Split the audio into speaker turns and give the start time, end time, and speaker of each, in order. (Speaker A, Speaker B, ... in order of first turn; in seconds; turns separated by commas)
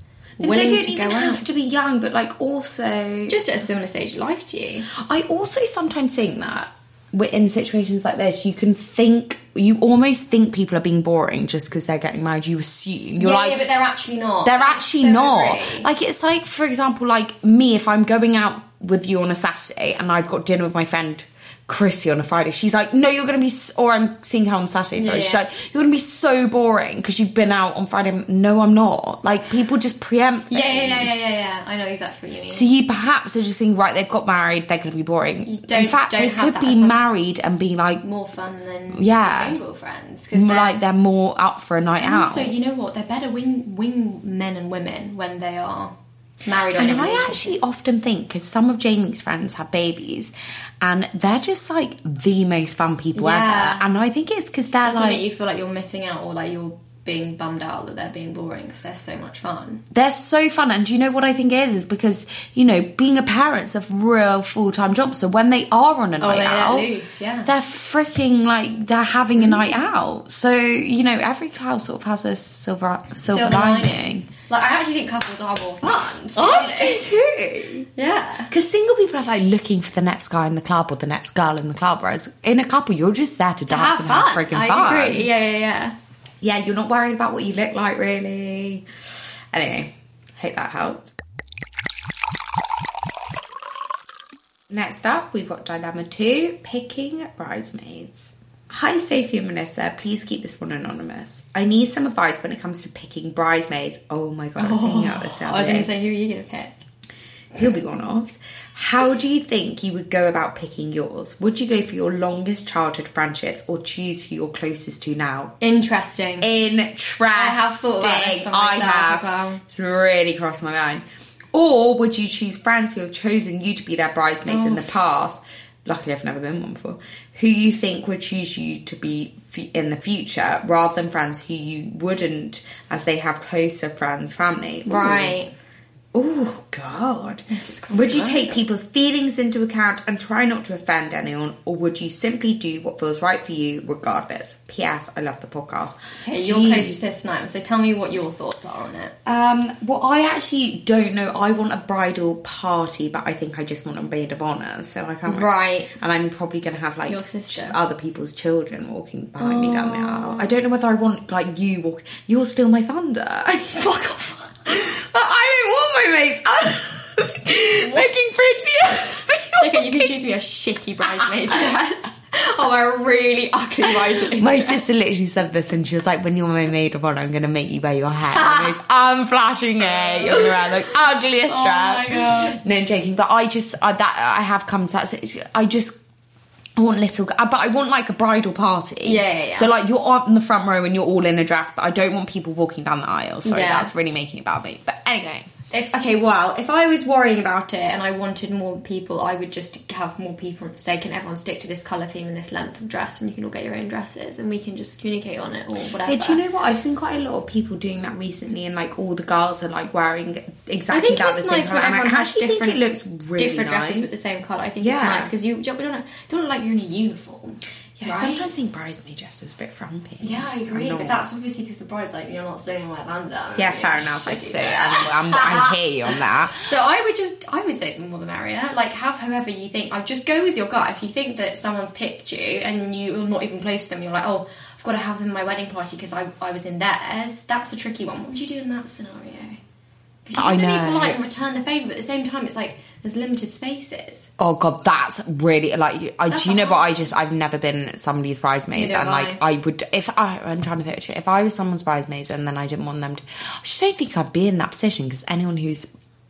Speaker A: 0.4-1.4, Speaker B: 0.4-3.4, Speaker A: 3.3-4.9, Speaker B: 4.9-13.6, Speaker A: 13.2-15.9, Speaker B: 14.4-31.2, Speaker A: 25.0-25.4, Speaker A: 30.5-32.7, Speaker B: 32.5-38.0, Speaker A: 35.5-37.0, Speaker A: 38.0-40.7, Speaker B: 38.9-39.6, Speaker B: 40.3-42.5, Speaker A: 42.0-47.5, Speaker B: 46.7-55.2, Speaker A: 53.1-53.8, Speaker A: 54.8-59.8, Speaker B: 59.9-66.9, Speaker A: 66.2-67.5, Speaker B: 67.5-74.3, Speaker A: 69.3-69.6, Speaker A: 73.2-77.2, Speaker B: 76.3-77.9, Speaker A: 78.0-78.5, Speaker B: 78.5-85.3, Speaker A: 83.7-85.9, Speaker B: 86.4-88.9, Speaker B: 89.5-91.1, Speaker B: 94.7-105.9, Speaker A: 104.6-106.8, Speaker B: 107.5-115.5, Speaker A: 115.6-116.5, Speaker B: 116.4-135.3, Speaker A: 117.3-119.6, Speaker A: 124.5-124.9, Speaker A: 134.8-135.5, Speaker B: 136.1-147.0, Speaker A: 137.5-138.6, Speaker A: 146.3-149.1, Speaker B: 149.2-163.9, Speaker A: 155.3-155.9, Speaker A: 157.1-157.8, Speaker A: 159.4-160.6, Speaker A: 163.7-164.7, Speaker B: 164.7-170.1, Speaker A: 167.8-168.2, Speaker A: 169.5-174.8, Speaker B: 173.9-186.0, Speaker A: 178.3-178.8, Speaker A: 179.8-180.9, Speaker A: 181.5-182.6, Speaker B: 186.8-195.5, Speaker A: 189.0-189.7, Speaker A: 193.4-193.9, Speaker A: 195.7-206.4, Speaker B: 206.0-214.1, Speaker A: 210.9-212.8, Speaker A: 213.4-218.5, Speaker B: 214.8-215.3, Speaker B: 218.0-221.2, Speaker A: 220.2-239.6, Speaker B: 223.6-226.7, Speaker A: 240.2-244.3, Speaker B: 240.3-241.2, Speaker B: 244.4-255.9, Speaker A: 246.3-246.9, Speaker A: 248.7-249.4